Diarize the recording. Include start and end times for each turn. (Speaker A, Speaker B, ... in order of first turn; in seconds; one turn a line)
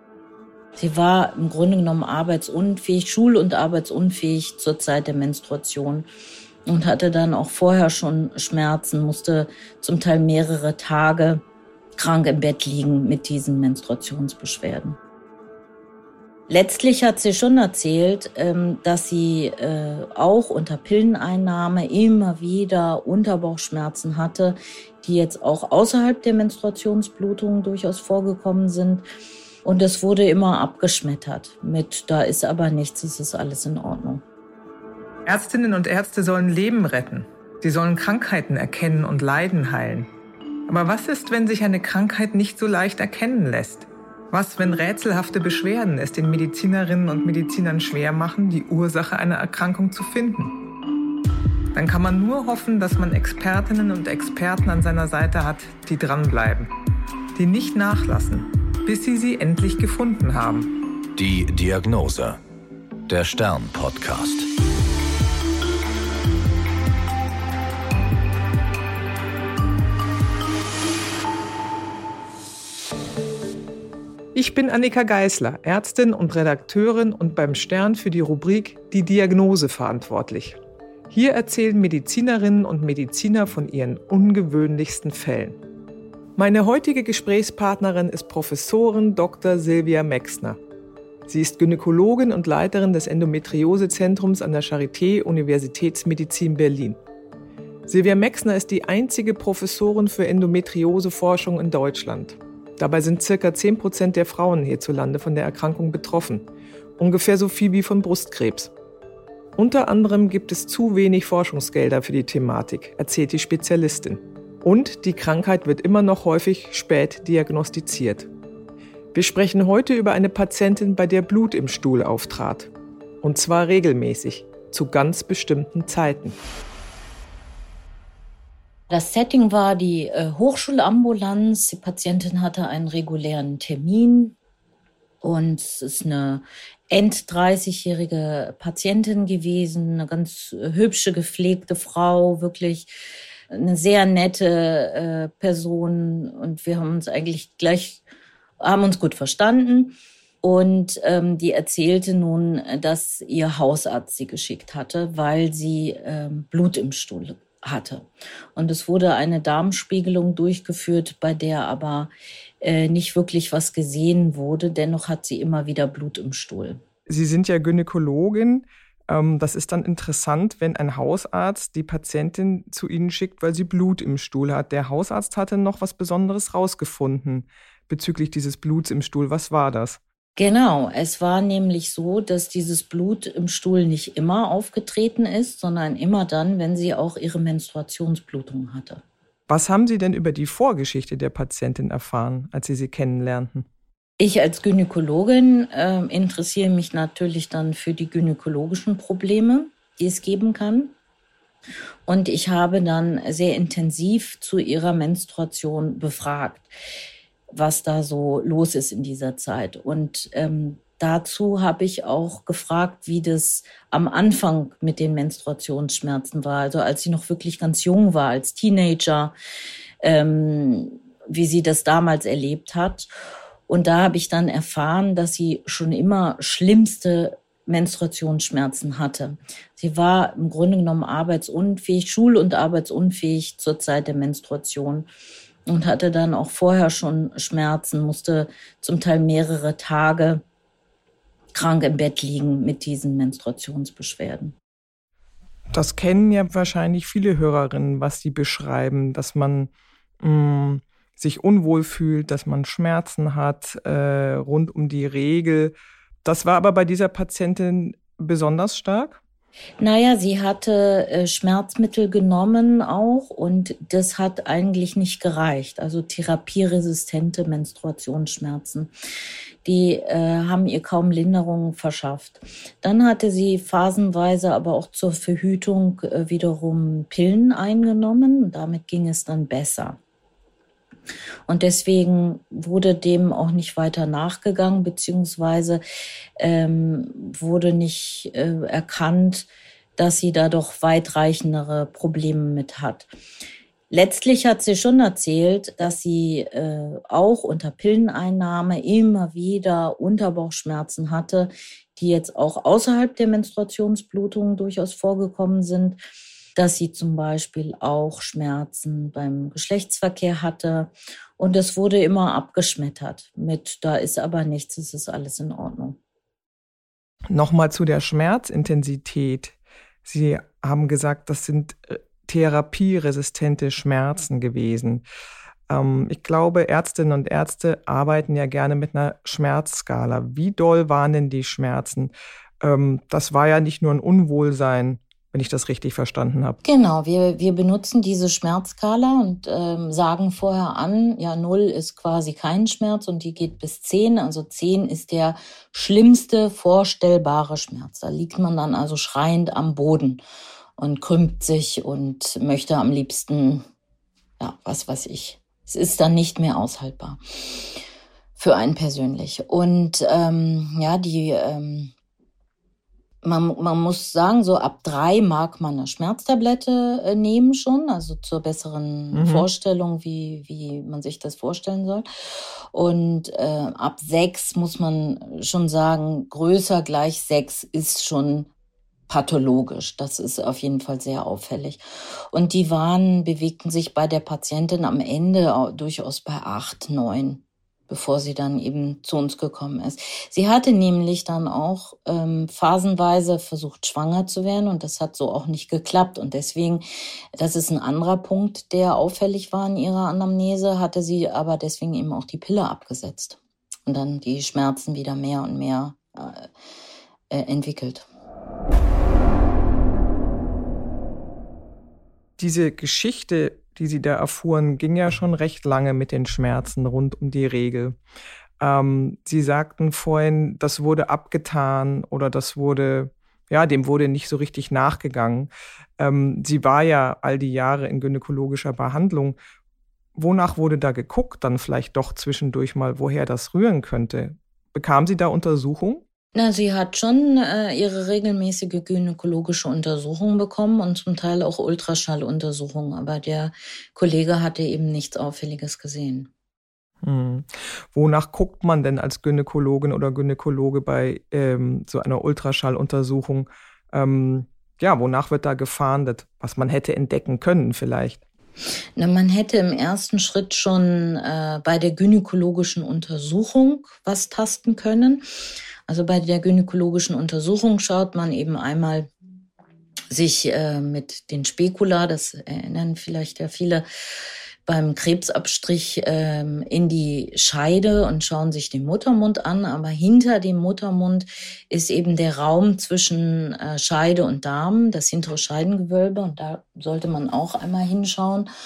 Speaker A: 0.8-6.1
Speaker A: 6.7-11.4
Speaker A: 12.0-15.0
Speaker A: 16.5-29.0
Speaker A: 29.6-34.2
Speaker B: 35.3-40.1
Speaker B: 40.7-50.5
Speaker B: 51.7-56.7
Speaker B: 57.4-60.7
Speaker C: 61.2-62.4
Speaker C: 63.1-64.5
Speaker B: 74.3-80.6
Speaker B: 81.1-85.6
Speaker B: 86.4-90.6
Speaker B: 91.3-97.0
Speaker B: 97.9-106.5
Speaker B: 107.0-108.7
Speaker B: 109.6-118.3
Speaker B: 119.1-122.7
Speaker B: 123.2-126.4
Speaker A: 128.9-134.4
Speaker A: 135.2-142.9
Speaker A: 143.5-148.0
Speaker A: 148.6-166.8
Speaker B: 167.1-180.0
Speaker A: 180.4-189.0
Speaker B: 189.5-193.7
Speaker A: 194.2-200.9
Speaker A: 202.1-206.7
Speaker A: 207.5-219.3
Speaker A: 220.0-223.1
Speaker A: 223.7-235.1
Speaker A: 235.7-240.4
Speaker A: 241.5-244.6
Speaker B: 245.7-259.2
Speaker A: 259.8-268.9
Speaker A: 269.6-280.0
Speaker A: 281.5-285.8
Speaker A: 286.4-293.1
Speaker A: 293.9-306.0
Speaker A: 306.6-316.0
Speaker B: 317.3-325.1
Speaker B: 325.7-336.6
Speaker A: 336.6-350.2
Speaker A: 350.8-353.6
Speaker A: 354.4-357.2
Speaker A: 358.4-361.9
Speaker A: 363.2-372.1
Speaker B: 369.1-369.5
Speaker A: 372.7-378.5
Speaker A: 379.1-381.8
Speaker A: 382.3-396.8
Speaker A: 397.4-406.5
Speaker A: 407.3-408.1
Speaker B: 412.4-418.0
Speaker B: 418.6-429.4
Speaker B: 430.2-436.0
Speaker A: 436.3-446.3
Speaker B: 447.0-458.2
Speaker A: 459.0-465.2
Speaker A: 465.9-469.1
Speaker A: 470.1-473.8
Speaker A: 474.7-488.5